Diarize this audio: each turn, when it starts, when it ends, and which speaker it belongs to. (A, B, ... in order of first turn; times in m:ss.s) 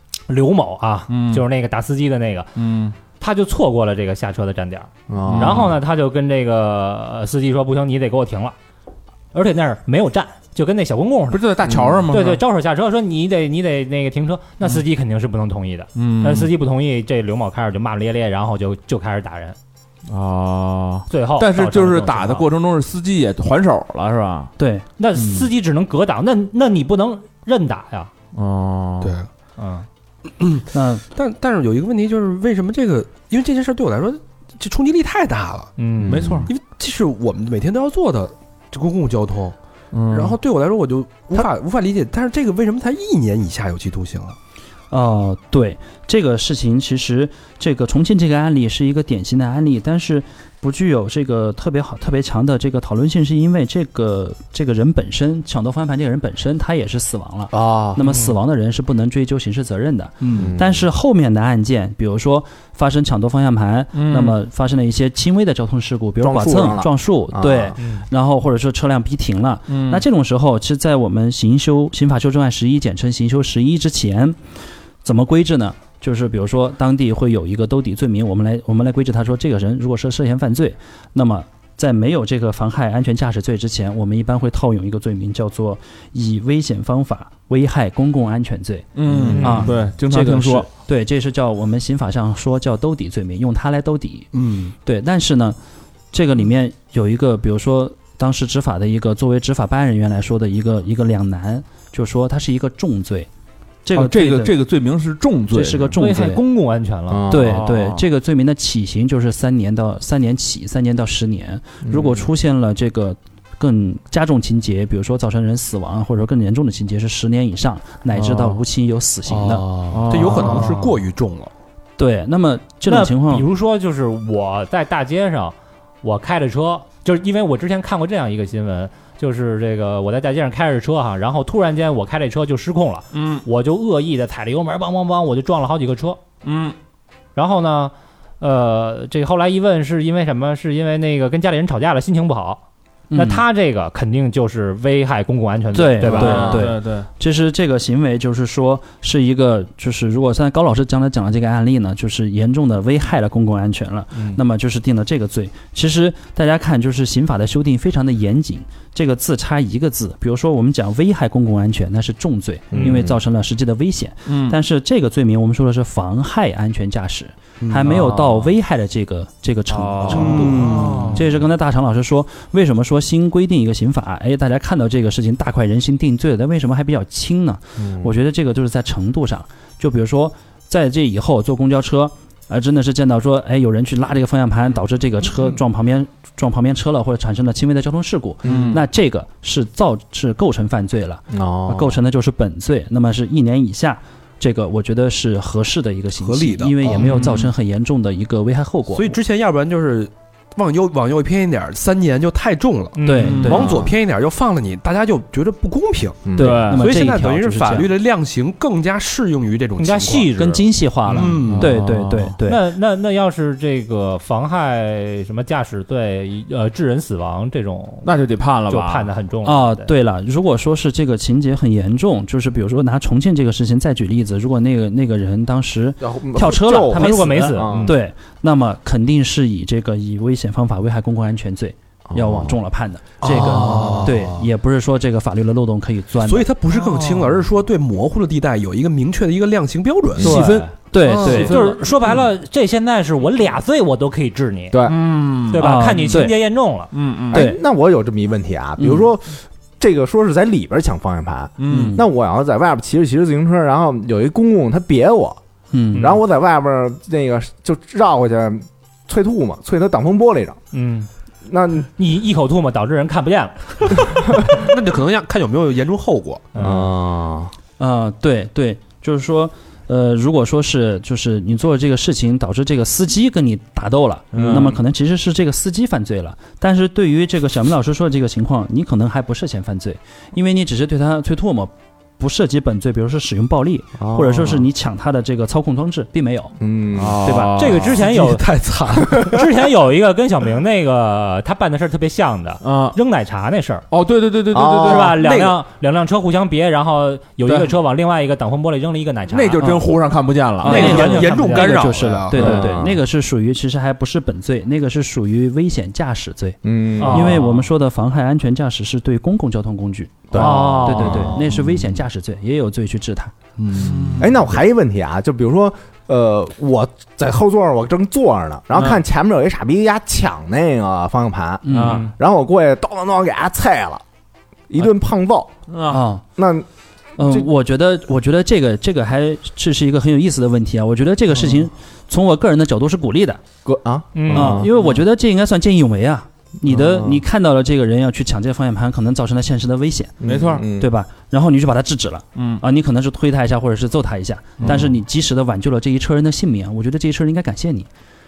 0:00.3-0:02.5 A
0:01.1-0:01.4 B
0:02.6-0:02.9 B
0:03.1-0:08.5 A
0:05.1-0:05.7 C
0:05.3-0:05.8 B
0:09.3-0:11.4 A
0:11.3-0:12.4 B
0:11.7-0:12.0 C
0:12.1-0:19.6 A
0:16.0-0:16.5 B
0:20.1-0:24.5 B
0:21.1-0:22.5 A
0:24.6-0:24.8 D
0:25.0-0:28.1 A
0:28.3-0:29.1 B
0:29.0-0:29.3 E
0:29.6-0:29.9 A
0:30.4-0:35.7 E
0:30.7-0:31.0 D
0:35.8-0:36.4 A
0:36.0-0:36.4 C
0:36.0-0:36.5 B
0:36.4-0:39.5 E
0:39.9-0:40.4 B
0:40.1-0:44.4 E
0:44.9-1:14.4 D
0:57.5-0:58.0 C
0:58.0-0:58.3 A
1:00.2-1:00.5 E
1:00.3-1:00.9 C
1:03.9-1:04.4 B
1:06.2-1:07.8 C
1:07.8-1:08.1 A
1:09.7-1:10.0 B
1:15.0-1:34.3 D
1:28.9-1:30.7 B
1:29.0-1:29.6 E
1:29.2-1:29.7 A
1:34.3-1:34.7 E
1:34.8-1:35.6 D
1:36.1-1:43.3 D
1:43.8-1:44.6 D
1:43.9-1:46.0 B
1:45.5-1:46.4 D
1:46.0-1:47.3 A
1:47.1-1:47.6 C
1:47.3-1:59.6 D
1:47.3-1:48.0 B
1:51.8-1:52.2 C
1:59.3-2:01.5 E
1:59.9-2:00.7 B
2:00.4-2:00.9 A
2:02.0-2:03.4 D
2:02.8-2:16.2 A
2:13.1-2:13.4 B
2:16.4-2:16.8 B
2:17.3-2:26.6 A
2:23.1-2:23.4 D
2:25.7-3:19.1 D
2:26.0-2:27.1 B
2:26.2-2:26.7 C
2:34.1-2:34.4 A
2:42.7-2:43.2 C
2:44.3-2:44.6 B
2:47.6-2:48.0 E
2:47.8-2:48.5 B
2:49.7-2:51.2 B
2:50.1-2:51.2 E
2:50.5-2:51.2 C
2:57.8-2:58.1 C
3:08.4-3:08.8 C
3:08.4-3:08.8 B
3:11.3-3:12.0 C
3:16.2-3:17.0 E
3:17.0-3:17.5 B
3:18.9-3:30.3 E
3:22.9-3:23.7 A
3:23.0-3:23.9 D
3:23.2-3:23.8 B
3:26.2-3:26.7 C
3:26.4-3:26.8 B
3:26.4-3:27.9 D
3:29.8-3:30.6 A
3:30.3-3:32.6 D
3:31.1-3:31.7 E
3:31.4-3:32.4 B
3:32.4-3:38.1 A
3:38.0-3:39.1 B
3:38.7-3:39.9 A
3:39.4-3:56.5 D
3:46.0-3:48.0 C
3:46.8-3:47.9 A
3:52.1-3:52.6 C
3:53.2-3:54.1 C
3:53.2-3:54.4 E
3:56.2-4:00.4 E
3:56.7-3:57.2 A
4:00.2-4:00.7 B
4:00.2-4:01.7 D
4:01.0-4:01.8 E
4:01.2-4:04.8 A
4:01.2-4:01.8 B
4:04.7-4:05.0 C
4:04.8-4:06.3 B
4:05.5-4:06.9 A
4:05.6-4:06.4 D
4:06.9-4:07.4 B
4:07.3-4:15.4 C
4:07.3-4:07.6 D
4:08.8-4:09.0 D
4:11.6-4:12.0 B
4:11.7-4:12.0 D
4:15.7-4:16.2 D
4:15.9-4:20.6 C
4:20.7-4:21.1 A
4:21.4-4:21.9 C
4:22.0-4:24.2 A
4:24.5-4:26.5 E
4:26.5-4:26.9 A
4:26.6-4:27.5 C
4:27.8-4:46.5 D
4:34.3-4:34.8 B
4:44.0-4:44.6 C
4:46.6-4:47.4 C
4:46.9-4:48.0 B
4:47.2-4:47.7 D
4:47.6-4:48.5 A
4:47.9-4:49.3 E
4:49.1-4:49.4 C
4:49.2-4:53.8 A
4:52.6-4:53.0 B
4:53.9-4:55.2 B
4:54.5-4:55.2 C
4:54.8-4:59.9 A
4:55.0-4:55.6 E
4:57.4-4:57.7 B
4:59.3-5:01.2 B
5:00.6-5:13.3 D
5:00.6-5:01.8 A
5:00.6-5:02.7 E
5:02.3-5:03.0 C
5:02.3-5:02.7 B
5:06.6-5:07.4 C
5:07.0-5:07.5 A
5:10.3-5:11.8 C
5:10.3-5:11.2 B
5:10.5-5:11.0 A
5:13.6-5:14.3 E
5:13.7-5:14.4 B
5:14.2-5:24.0 C
5:21.6-5:22.1 D
5:21.7-5:22.1 B
5:24.7-5:25.5 C
5:25.7-5:26.0 B
5:25.9-5:26.2 D
5:26.4-5:26.6 C
5:27.2-5:33.4 D
5:27.2-5:27.5 C
5:33.6-5:34.7 C
5:34.1-5:34.6 A
5:34.3-5:40.1 D
5:36.6-5:37.2 C
5:40.2-5:40.9 C
5:40.2-5:40.6 B
5:40.8-5:47.9 D
5:42.4-5:42.6 B
5:44.6-5:44.8 B